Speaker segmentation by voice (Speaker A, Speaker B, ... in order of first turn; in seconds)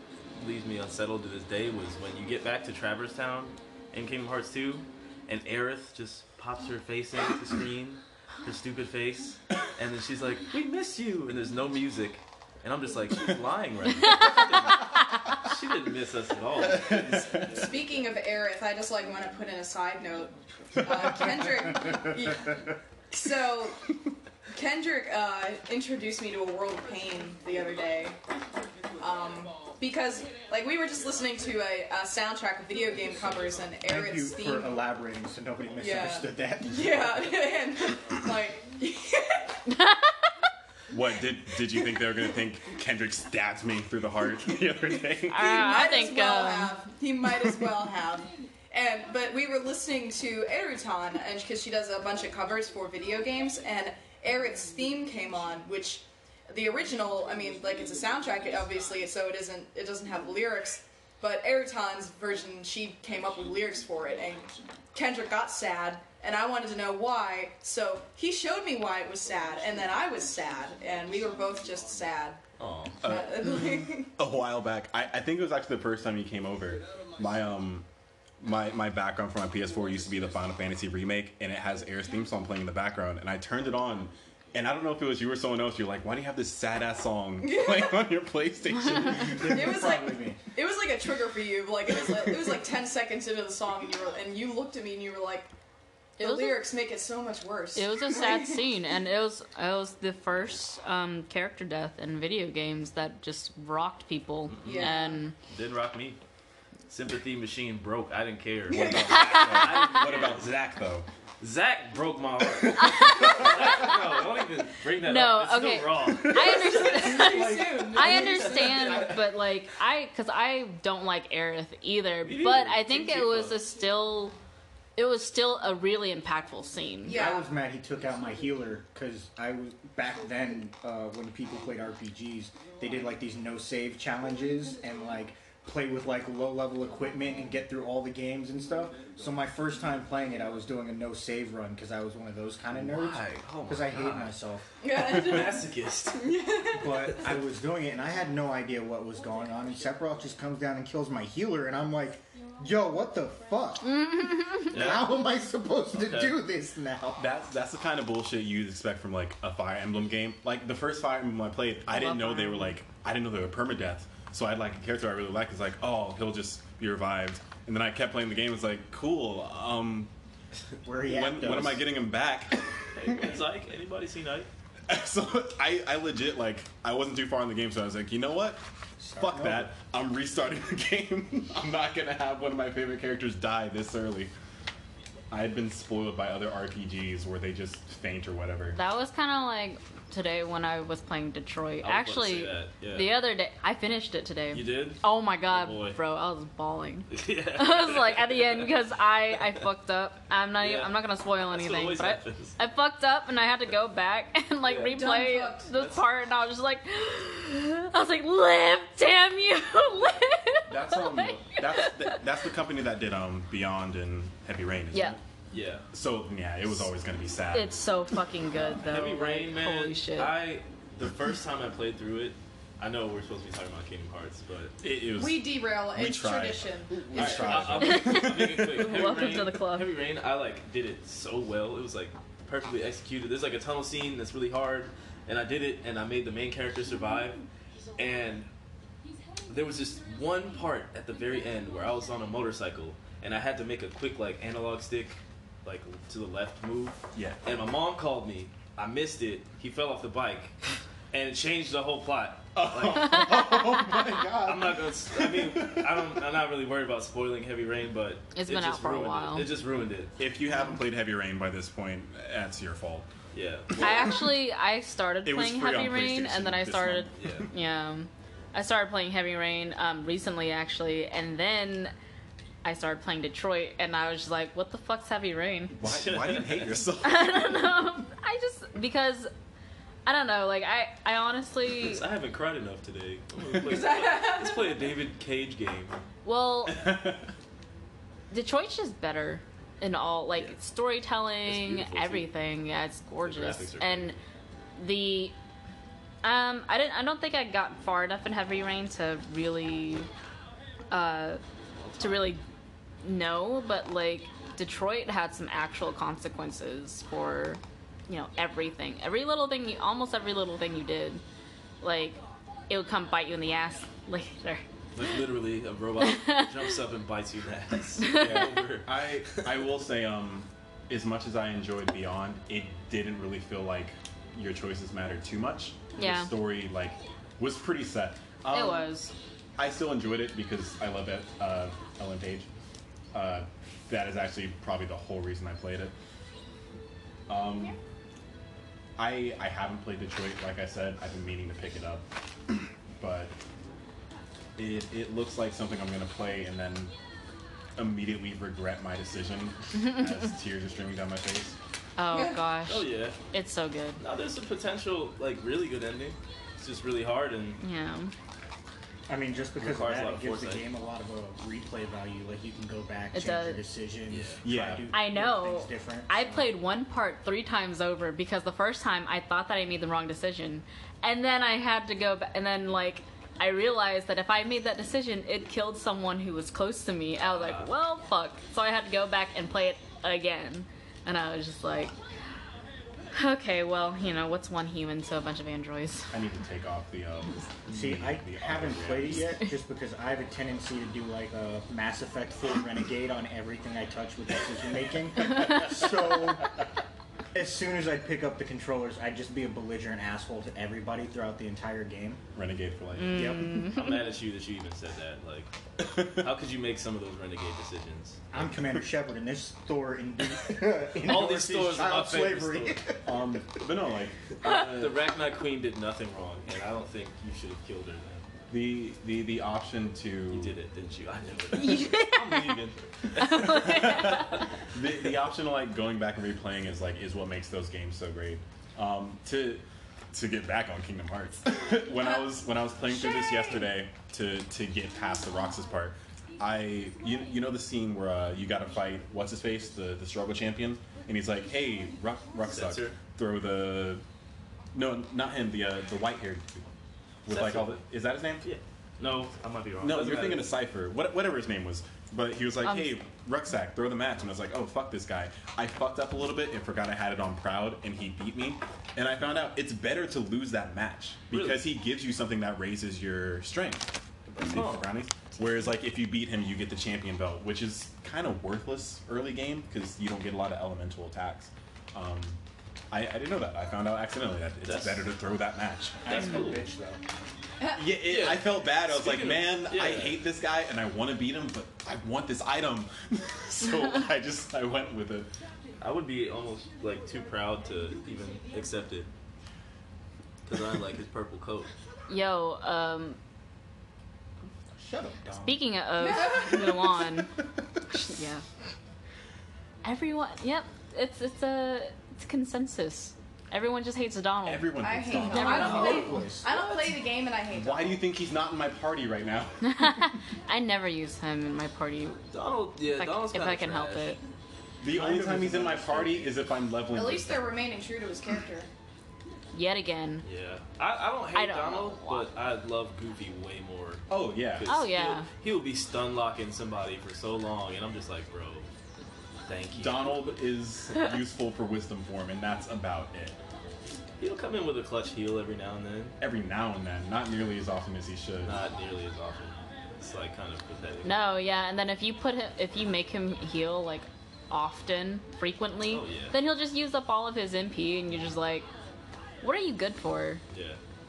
Speaker A: 0.3-17.4, 72.6-73.0, 104.5-106.2, 106.9-110.6, 111.4-117.1, 118.0-119.1, 122.2-123.6, 142.8-146.4, 154.7-155.1, 155.9-156.4, 172.9-174.5, 191.8-193.2, 194.5-196.0, 197.1-198.7, 200.6-200.9, 201.4-202.6, 204.7-205.0, 205.8-206.0, 215.5-215.9, 218.7-224.7, 227.1-237.4, 237.9-238.5, 239.5-250.6, 251.1-253.3, 254.4-260.1, 263.3-263.9, 267.2-267.5, 275.8-276.8, 281.7-286.0, 291.4-292.3, 293.2-294.1, 301.8-302.3, 314.9-319.5, 352.7-353.2, 354.0-357.6, 359.6-360.6, 364.1-364.4, 377.2-377.7, 403.6-405.5, 406.0-408.3, 411.0-412.8, 414.5-418.3, 420.3-424.2, 442.4-443.0, 447.3-447.8, 448.4-450.5, 461.3-461.6, 464.5-464.9, 474.6-475.1, 476.1-476.6, 478.0-480.2, 485.8-489.1, 490.4-491.7, 512.3-514.2, 520.2-528.7, 529.5-530.3, 534.2-536.2, 538.4-541.2, 545.9-546.4, 550.5-550.8
Speaker B: 16.7-17.5, 40.9-45.9, 73.0-77.9, 78.4-89.8, 108.7-111.1, 112.8-113.9, 157.2-170.1, 171.0-173.2, 174.9-178.6, 179.2-184.3, 185.3-188.8, 210.7-215.2, 215.9-218.2, 224.8-228.9, 247.1-247.4, 252.5-256.0, 260.2-263.1, 263.7-264.3, 265.2-267.4, 275.7-277.8, 286.6-287.3, 318.1-328.9, 329.6-332.5, 333.1-335.9, 337.3-337.8, 339.0-343.3, 344.6-346.9, 347.8-351.6, 364.4-364.9, 386.1-389.4, 402.3-403.4, 405.8-406.3, 413.0-415.0, 418.5-420.6, 423.2-444.0, 444.7-446.7, 447.2-448.5, 449.8-472.4, 472.9-476.4, 477.7-485.3, 504.4-506.1, 507.5-510.1, 514.8-517.5, 524.1-524.7, 529.7-533.4, 536.2-538.6
Speaker C: 17.5-23.9, 24.5-28.2, 29.0-34.8, 35.8-39.6, 45.3-72.4, 73.0-74.1, 87.4-88.1, 89.4-95.5, 96.2-98.6, 104.6-105.2, 108.8-109.0, 116.3-119.2, 127.0-127.5, 144.8-147.1, 204.7-205.7, 225.1-227.7, 283.5-284.7, 352.1-352.4, 432.0-432.3, 433.1-433.6, 496.0-496.8, 504.8-508.1, 516.9-518.7
Speaker D: 33.8-37.2, 89.1-90.4, 127.1-144.7, 146.7-154.2, 154.7-157.2, 170.8-171.9, 179.0-179.7, 359.1-366.6, 387.7-396.5, 397.3-402.2, 403.1-403.5, 408.3-413.1, 476.0-477.0, 494.7-495.7, 505.4-506.7, 514.8-516.3
Speaker E: 39.7-40.1, 45.3-46.8, 88.8-89.3, 96.2-96.6, 97.7-105.3, 112.8-113.9, 115.0-124.3, 125.0-127.2, 153.9-154.7, 161.9-162.7, 188.7-212.2, 217.5-220.3, 227.8-229.9, 258.3-259.5, 263.8-271.9, 272.6-275.8, 277.0-279.3, 280.1-282.0, 286.2-286.9, 288.3-294.2, 294.8-295.3, 296.2-300.1, 300.9-301.4, 302.0-302.4, 303.0-311.2, 311.8-314.6, 316.0-316.5, 318.0-318.5, 325.9-326.3, 328.5-329.1, 352.0-354.0, 357.6-358.1, 363.1-363.6, 364.9-381.9, 383.1-386.1, 402.9-404.0, 421.5-422.6, 423.2-424.4, 452.6-452.9, 492.1-493.2, 495.4-497.3, 497.9-498.4, 499.8-506.2, 509.6-512.2, 512.9-514.2, 519.5-520.2, 521.3-522.3, 524.6-525.3, 541.0-548.7, 549.4-550.4